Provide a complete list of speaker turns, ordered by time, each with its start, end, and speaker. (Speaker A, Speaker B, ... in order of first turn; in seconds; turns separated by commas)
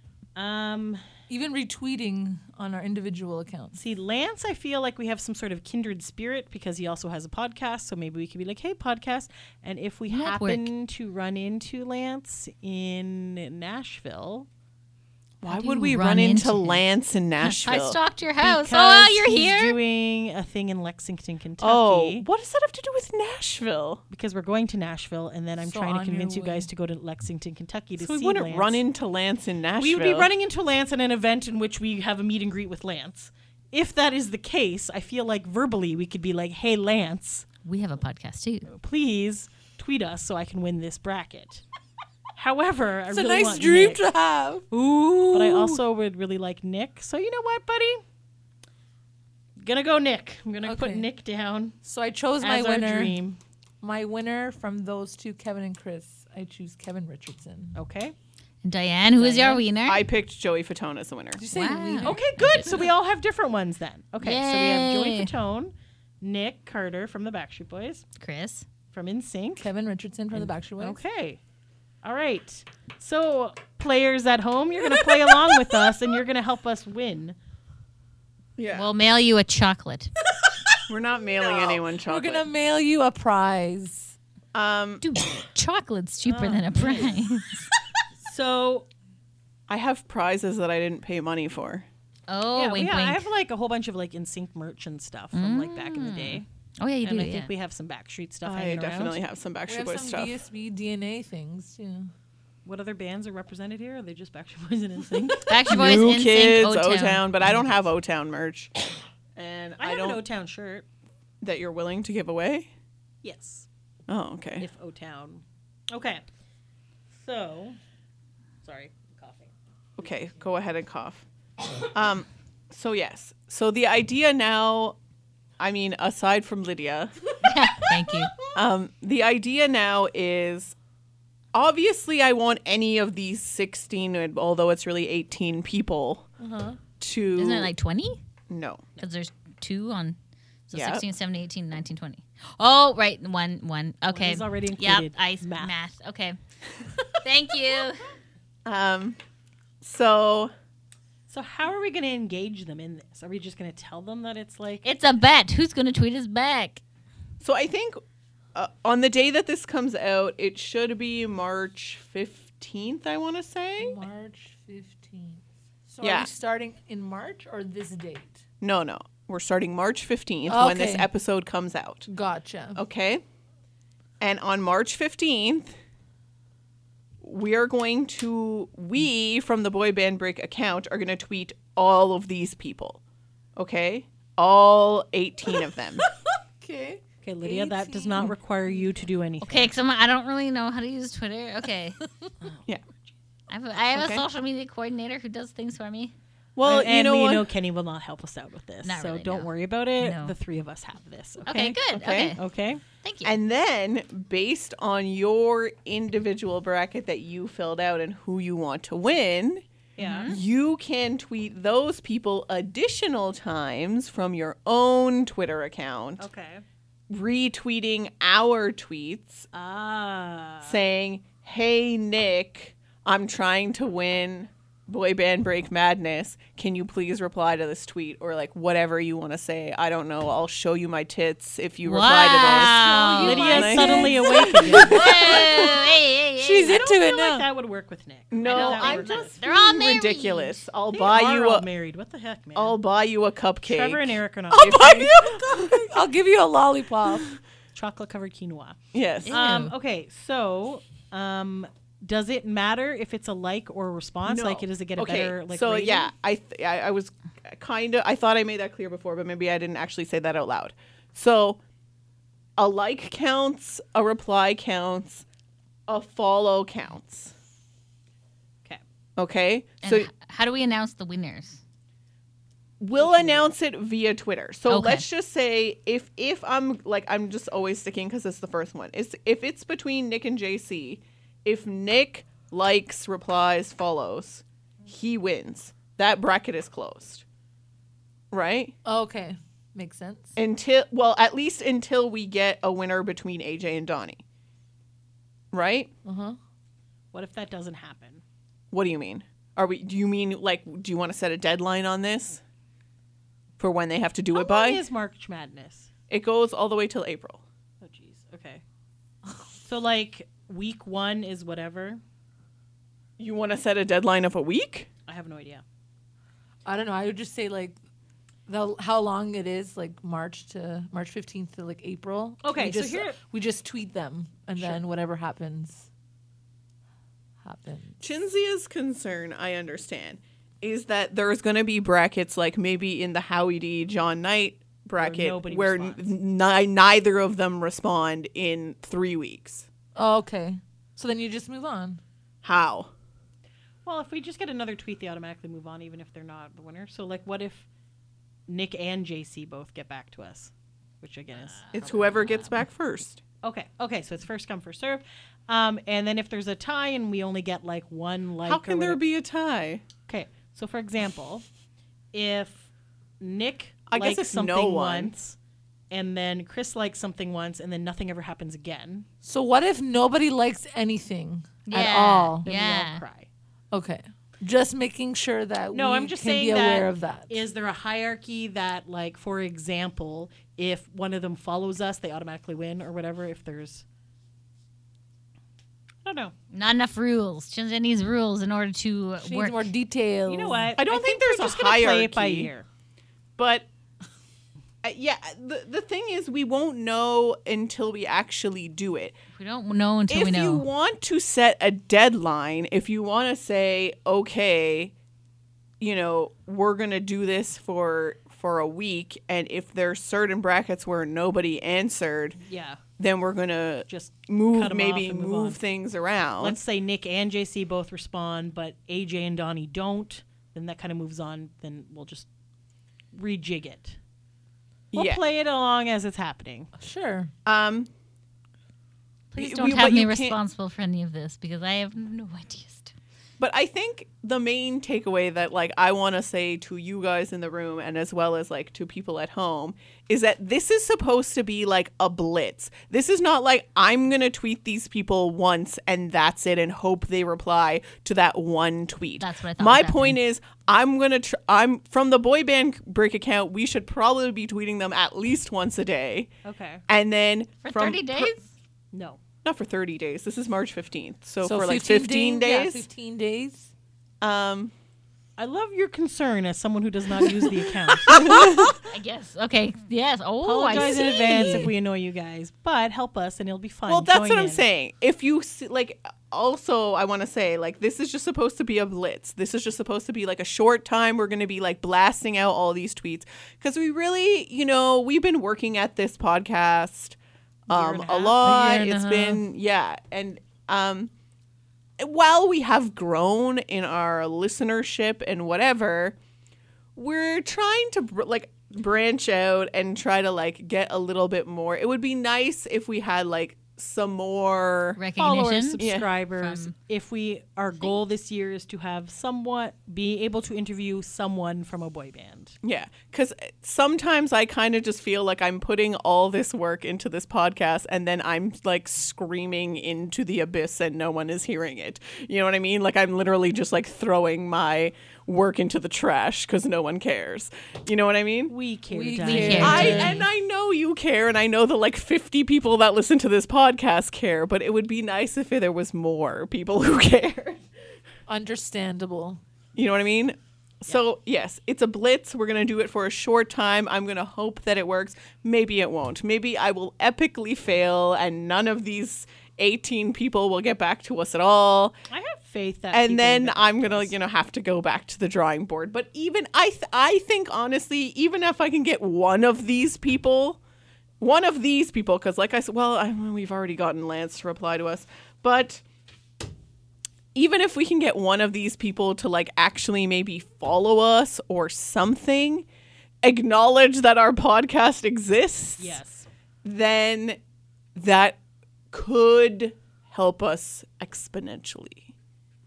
Speaker A: 0.3-1.0, Speaker B: 1.3-3.8, Speaker A: 3.8-14.5, Speaker C: 10.1-10.7, Speaker D: 15.4-18.0, Speaker C: 15.4-16.8, Speaker C: 17.4-19.8, Speaker A: 18.4-22.2, Speaker D: 21.6-24.0, Speaker A: 24.1-28.8, Speaker B: 25.6-26.7, Speaker D: 28.0-30.3, Speaker A: 29.8-37.5, Speaker C: 37.6-38.7, Speaker A: 38.7-41.6, Speaker A: 42.3-44.0, Speaker B: 43.1-45.8, Speaker A: 44.7-48.0, Speaker A: 49.6-51.8, Speaker B: 50.6-51.1, Speaker B: 51.8-53.2, Speaker A: 52.4-53.4, Speaker B: 53.8-57.8, Speaker A: 57.7-58.1, Speaker C: 58.6-60.1, Speaker A: 59.1-59.6, Speaker D: 59.9-61.4, Speaker B: 61.4-62.2, Speaker C: 61.5-62.9, Speaker A: 62.0-68.0, Speaker C: 64.2-65.3, Speaker C: 68.2-68.7, Speaker A: 68.9-69.7, Speaker B: 69.6-71.0, Speaker A: 70.3-71.4, Speaker A: 72.0-77.3, Speaker D: 78.6-78.9, Speaker C: 78.7-80.1, Speaker D: 80.9-82.5, Speaker B: 81.4-84.2, Speaker D: 84.5-85.0, Speaker C: 85.0-87.6, Speaker A: 86.2-87.2, Speaker A: 88.2-88.9, Speaker D: 89.7-91.8, Speaker C: 92.3-93.3, Speaker A: 92.5-96.4, Speaker C: 95.3-97.5, Speaker A: 97.0-99.2, Speaker D: 98.4-100.4, Speaker B: 99.7-102.1, Speaker A: 102.6-105.5, Speaker C: 105.5-107.3, Speaker D: 105.7-108.7, Speaker D: 109.3-110.2, Speaker A: 109.8-110.8, Speaker D: 111.4-112.7, Speaker A: 113.2-113.7, Speaker D: 114.1-114.7, Speaker A: 114.6-116.2, Speaker A: 117.1-117.8, Speaker A: 118.6-119.5, Speaker D: 120.0-121.2, Speaker D: 121.9-125.0, Speaker D: 125.6-127.1, Speaker C: 127.4-128.3, Speaker D: 128.5-130.8, Speaker D: 131.5-136.3, Speaker B: 136.4-136.8, Speaker D: 137.0-137.7, Speaker C: 137.3-138.2, Speaker D: 138.5-138.8, Speaker C: 139.0-140.2, Speaker C: 140.7-146.4, Speaker D: 140.7-141.0, Speaker A: 144.1-145.7, Speaker C: 147.1-148.1, Speaker D: 148.7-149.2, Speaker D: 149.8-150.5, Speaker A: 151.3-154.8, Speaker C: 154.8-156.8, Speaker D: 157.4-158.0, Speaker D: 158.5-164.0, Speaker B: 163.8-168.4, Speaker D: 166.0-166.3, Speaker D: 168.6-172.1, Speaker B: 170.5-171.1, Speaker B: 172.1-172.8, Speaker D: 172.7-173.2, Speaker D: 174.2-175.7, Speaker D: 177.2-183.0, Speaker D: 183.6-186.1, Speaker B: 186.2-189.0, Speaker A: 187.2-189.7, Speaker C: 189.4-192.0, Speaker C: 193.5-196.1, Speaker D: 193.9-194.2, Speaker D: 196.6-197.5, Speaker A: 196.6-201.8, Speaker C: 198.8-200.3, Speaker C: 201.4-202.4, Speaker D: 201.9-202.4, Speaker A: 202.4-202.8, Speaker C: 203.0-203.3, Speaker D: 203.2-209.6, Speaker A: 209.9-210.3, Speaker C: 210.0-210.4, Speaker D: 210.2-216.2, Speaker A: 216.2-216.6, Speaker D: 217.1-219.5, Speaker A: 219.5-220.8, Speaker D: 220.6-235.7, Speaker C: 231.8-233.9, Speaker B: 232.4-235.7, Speaker A: 233.2-235.4, Speaker C: 234.7-236.8, Speaker B: 236.4-237.5, Speaker A: 236.6-239.4, Speaker D: 238.3-241.7, Speaker C: 238.4-240.6, Speaker A: 240.9-242.8, Speaker D: 242.5-245.9, Speaker A: 243.6-245.1, Speaker B: 244.6-247.3, Speaker A: 247.7-256.1, Speaker D: 248.9-249.4, Speaker C: 249.2-249.7, Speaker D: 254.2-261.6, Speaker D: 262.6-265.2, Speaker D: 265.9-267.3, Speaker D: 269.2-270.1, Speaker C: 269.8-271.6, Speaker D: 272.8-287.2, Speaker A: 273.0-273.5, Speaker C: 274.7-275.0, Speaker D: 288.3-288.7, Speaker B: 288.8-290.4, Speaker D: 290.4-294.2, Speaker D: 295.5-295.9, Speaker B: 296.0-296.4, Speaker A: 297.1-298.2, Speaker D: 298.7-302.4, Speaker D: 303.6-304.8, Speaker A: 304.3-305.9, Speaker D: 306.1-307.4, Speaker A: 307.8-308.6, Speaker A: 309.6-312.0, Speaker D: 313.2-314.9, Speaker A: 315.1-315.6, Speaker B: 316.6-317.8, Speaker B: 318.5-325.9, Speaker A: 322.4-323.2, Speaker B: 327.4-328.0, Speaker D: 328.0-339.7, Speaker A: 335.0-336.1, Speaker B: 339.9-342.0, Speaker D: 342.4-342.9, Speaker A: 343.8-347.7, Speaker A: 348.5-351.6, Speaker C: 351.4-352.6, Speaker D: 351.7-353.2, Speaker A: 353.4-359.0, Speaker D: 358.4-359.8, Speaker A: 360.1-361.4, Speaker A: 362.1-362.7, Speaker A: 363.2-365.4, Speaker D: 363.9-365.1, Speaker A: 365.9-369.1, Speaker B: 369.2-372.4, Speaker C: 371.6-373.0, Speaker A: 372.4-373.3, Speaker B: 373.7-377.4, Speaker A: 375.7-383.8, Speaker A: 386.0-386.3, Speaker C: 386.5-389.6, Speaker B: 389.2-390.7, Speaker A: 390.3-392.6, Speaker D: 390.8-392.5, Speaker D: 393.4-393.7, Speaker D: 394.8-399.1, Speaker C: 399.4-400.6, Speaker D: 400.1-404.9, Speaker D: 405.8-412.4, Speaker A: 412.4-412.8, Speaker D: 413.0-416.6, Speaker A: 413.9-415.6, Speaker A: 416.4-422.3, Speaker A: 423.1-424.0, Speaker D: 424.9-425.2, Speaker A: 424.9-426.7, Speaker B: 426.8-427.3, Speaker D: 427.4-427.9, Speaker C: 429.3-432.9, Speaker D: 429.4-430.4, Speaker D: 433.4-456.3, Speaker C: 449.2-450.2, Speaker A: 456.4-456.8, Speaker D: 456.9-458.4, Speaker C: 457.6-458.4, Speaker A: 458.9-459.2, Speaker D: 459.4-462.9, Speaker B: 461.4-463.7, Speaker D: 464.2-464.7, Speaker A: 465.4-468.4, Speaker D: 468.1-468.7, Speaker B: 468.1-468.7, Speaker C: 468.9-471.7, Speaker A: 470.4-474.6, Speaker B: 470.7-471.7, Speaker D: 473.9-487.2, Speaker A: 487.7-488.5, Speaker D: 487.7-491.1, Speaker B: 488.4-489.4, Speaker D: 492.0-496.2, Speaker D: 496.9-505.0, Speaker C: 505.0-505.8, Speaker A: 505.2-512.6, Speaker D: 505.8-506.1, Speaker C: 506.4-506.7, Speaker D: 512.6-528.5, Speaker A: 528.5-530.2, Speaker B: 528.9-530.3, Speaker C: 529.2-530.1, Speaker D: 529.3-537.6, Speaker B: 538.3-539.4, Speaker D: 539.8-551.9, Speaker A: 552.1-554.1, Speaker D: 552.9-560.6, Speaker D: 561.2-565.8, Speaker D: 567.3-572.6, Speaker D: 573.2-576.0, Speaker A: 575.8-576.3, Speaker D: 576.6-577.4, Speaker D: 577.9-578.4, Speaker D: 578.9-582.1